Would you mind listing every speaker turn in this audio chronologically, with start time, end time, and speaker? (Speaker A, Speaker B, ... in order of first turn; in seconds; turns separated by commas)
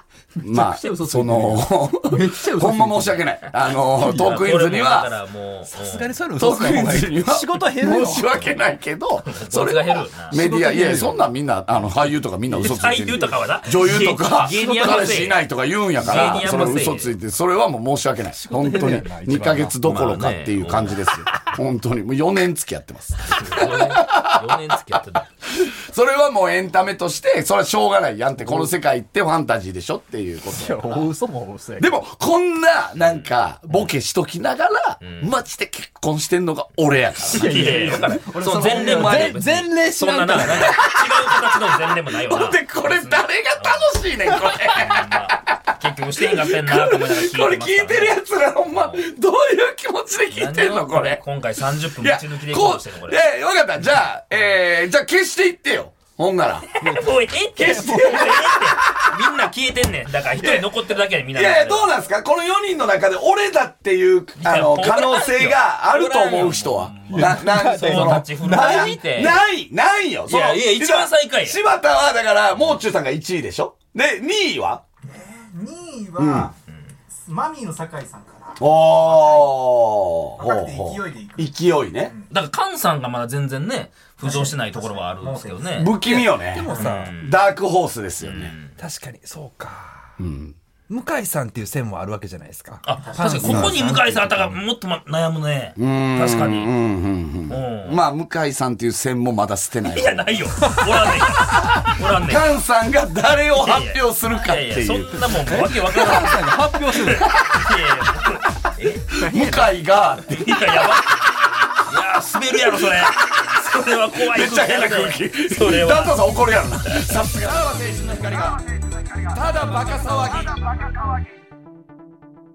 Speaker A: 0.4-5.1, Speaker B: 0.4-3.2, Speaker C: 4.0-6.1, Speaker B: 4.0-4.3, Speaker B: 5.7-8.5, Speaker A: 6.4-24.7, Speaker C: 9.2-10.4, Speaker B: 10.3-11.3, Speaker C: 12.5-15.4, Speaker B: 14.4-15.3, Speaker B: 16.0-16.9, Speaker C: 16.0-17.1, Speaker B: 18.3-19.8, Speaker C: 19.8-21.1, Speaker C: 23.3-25.3, Speaker A: 25.6-31.1, Speaker B: 28.4-28.7, Speaker B: 30.5-32.0, Speaker A: 31.8-39.4, Speaker C: 33.1-33.9, Speaker C: 35.0-35.3, Speaker C: 37.2-48.2, Speaker B: 37.3-40.8, Speaker A: 40.4-41.1, Speaker A: 42.1-51.2, Speaker C: 48.7-49.0, Speaker C: 50.3-53.2, Speaker A: 52.0-56.8, Speaker C: 56.8-62.0, Speaker A: 57.5-59.2, Speaker A: 60.4-60.7, Speaker A: 61.3-74.8, Speaker C: 64.4-69.4, Speaker B: 67.0-68.9, Speaker C: 70.3-71.6, Speaker D: 75.0-76.5, Speaker A: 76.2-76.5, Speaker D: 77.1-79.5, Speaker A: 78.6-82.1, Speaker D: 80.4-82.3, Speaker C: 82.3-86.1, Speaker D: 84.2-86.9, Speaker A: 85.8-88.5, Speaker B: 86.0-87.1, Speaker C: 86.7-87.4, Speaker C: 88.2-88.7, Speaker B: 88.8-90.1, Speaker A: 90.2-90.5, Speaker B: 90.9-94.6, Speaker C: 92.8-96.7, Speaker D: 93.0-93.8, Speaker A: 95.8-100.8, Speaker C: 97.5-98.0, Speaker C: 99.9-102.5, Speaker A: 101.8-105.3, Speaker C: 103.6-109.5, Speaker B: 105.4-107.4, Speaker A: 109.2-111.0, Speaker B: 109.2-109.6, Speaker C: 110.3-111.2, Speaker C: 111.8-116.3, Speaker A: 112.8-113.1, Speaker A: 114.2-120.9, Speaker C: 116.9-117.2